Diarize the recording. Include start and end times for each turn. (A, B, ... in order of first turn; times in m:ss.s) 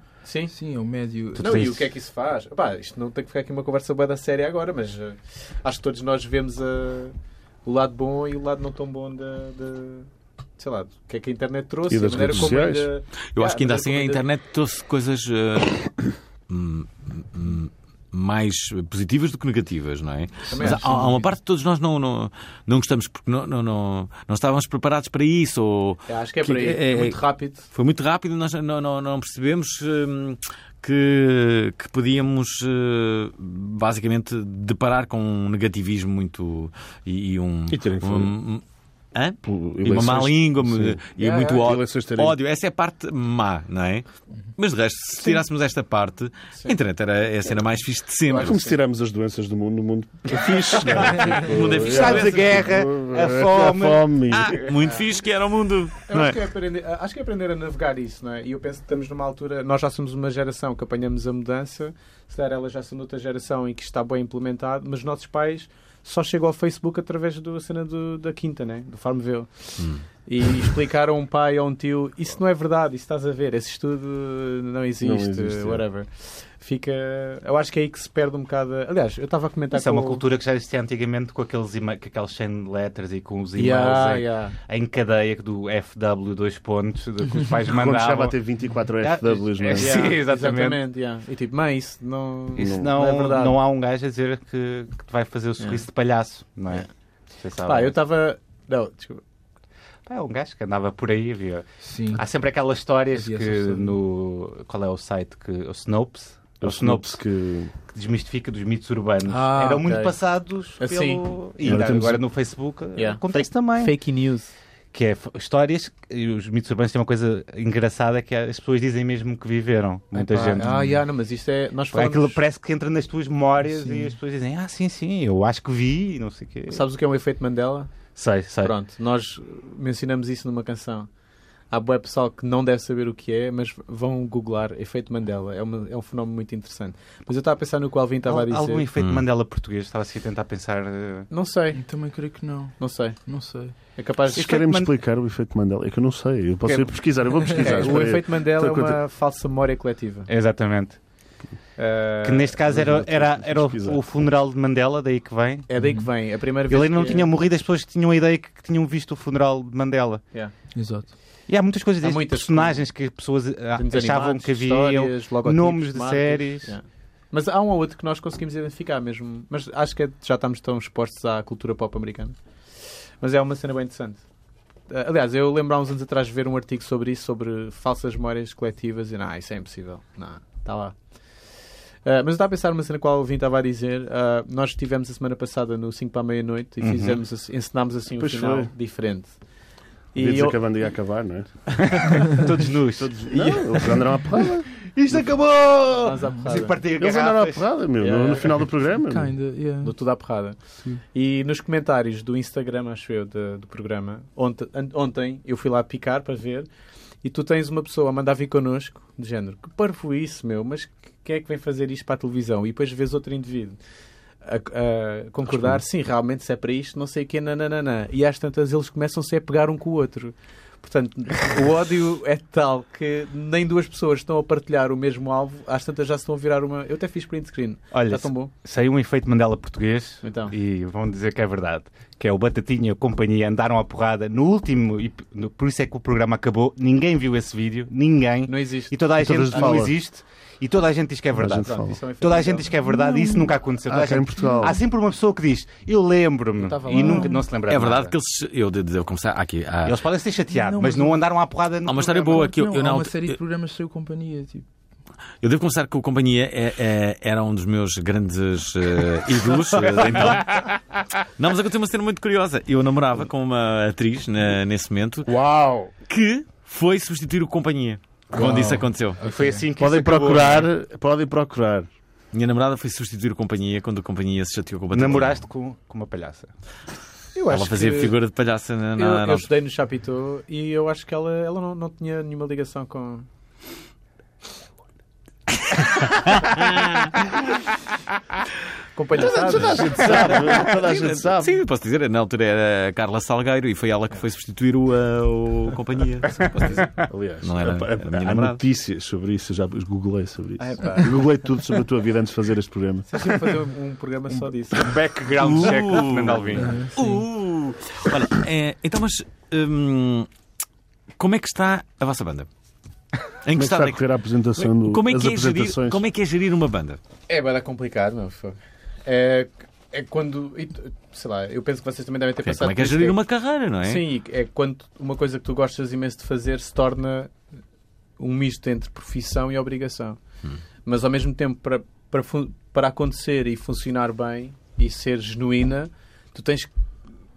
0:00.2-0:00.8 A
0:00.5-0:01.7 B
0:01.4-0:14.2 A
0:01.4-0:01.9 C
0:11.9-0:12.9 D
0:13.3-0:38.6 E
0:20.5-0:21.2 A
0:20.6-0:21.2 B
0:26.1-0:27.7 A
0:37.7-0:38.3 D
0:39.1-0:44.0 E
0:39.4-0:42.4 D
0:41.2-0:41.6 A
0:44.6-0:48.6 E
0:48.3-0:48.8 A
0:48.3-0:54.6 D
0:50.7-0:52.7 E
0:51.8-0:54.8 C
0:54.3-0:56.4 E
0:56.1-1:20.2 A
1:09.8-1:10.1 E
1:15.0-1:15.8 D
1:19.7-1:28.4 C
1:23.6-1:24.6 A
1:27.7-1:30.2 D
1:29.0-1:30.8 C
1:29.7-1:33.6 A
1:32.6-1:38.0 C
1:32.6-1:32.9 D
1:37.6-1:39.2 A
1:40.1-1:47.2 C
1:41.8-1:42.2 B
1:43.1-1:44.0 B
1:46.6-1:47.7 D
1:47.9-1:54.0 C
1:49.3-1:50.2 A
1:50.8-1:51.9 A
1:51.6-1:52.2 D
1:53.0-1:54.5 A
1:54.9-2:00.9 C
2:00.1-2:02.4 A
2:00.6-2:01.0 B
2:01.9-2:06.9 C
2:03.6-2:04.1 B
2:06.7-2:08.0 A
2:08.1-2:08.7 C
2:08.6-2:11.1 A
2:11.7-2:18.9 A
2:18.3-2:21.3 C
2:19.0-2:19.2 E
2:21.3-2:22.0 A
2:21.7-2:23.8 B
2:22.8-2:24.6 A
2:24.3-2:29.0 D
2:24.3-2:24.9 C
2:26.6-2:30.3 A
2:30.3-2:31.0 C
2:31.8-2:32.6 A
2:32.2-2:35.7 C
2:32.6-2:34.1 D
2:35.7-2:37.3 A
2:35.8-2:36.1 B
2:36.7-2:40.2 C
2:40.8-2:41.1 B
2:41.5-2:46.8 C
2:42.0-2:42.9 A
2:43.8-2:54.2 A
2:54.9-3:01.0 A
3:02.0-3:09.4 A
3:06.8-3:07.2 C
3:08.2-3:08.7 D
3:10.1-3:11.0 A
3:10.2-3:12.0 D
3:11.9-3:13.4 C
3:12.2-3:12.5 A
3:13.0-3:14.7 D
3:13.3-3:14.0 A
3:14.9-3:17.8 C
3:15.9-3:16.9 A
3:17.0-3:19.4 D
3:18.0-3:18.7 A
3:19.0-3:20.0 B
3:19.8-3:26.7 A
3:27.2-3:33.8 A
3:34.4-3:48.5 A
3:47.9-4:08.1 C
3:50.2-3:50.5 A
3:58.5-3:59.9 A
3:59.2-3:59.9 D
4:01.3-4:02.0 D
4:01.6-4:02.8 A
4:02.9-4:03.5 B
4:03.8-4:04.8 D
4:06.6-4:07.5 A
4:06.9-4:07.5 B
4:07.7-4:10.0 E
4:09.9-4:12.5 C
4:10.5-4:11.3 B
4:11.8-4:13.4 E
4:12.3-4:14.7 B
4:15.4-4:20.7 E
4:20.2-4:20.7 C
4:21.4-4:25.3 E
4:25.3-4:25.9 D
4:26.1-4:29.2 E
4:28.3-4:28.9 D
4:29.2-4:30.7 C
4:29.8-4:31.9 D
4:32.3-4:35.4 E
4:34.9-4:36.5 C
4:37.4-4:38.2 A
4:37.5-4:39.5 E
4:39.0-4:43.3 A
4:46.0-4:47.2 E
4:49.0-4:50.6 A
4:49.2-4:56.9 E
4:49.2-4:51.6 D
4:57.1-5:03.3 D
4:57.4-4:58.6 E
5:00.6-5:01.2 A
5:03.1-5:05.0 A
5:04.7-5:06.8 C
5:05.4-5:10.3 E
5:06.6-5:07.2 B
5:11.2-5:12.5 E
5:13.4-5:14.1 E
5:13.6-5:16.0 D
5:14.6-5:17.0 E
5:17.3-5:23.2 A
5:22.4-5:24.0 E
5:23.8-5:27.4 A
5:28.2-5:30.2 A
5:30.8-5:36.7 A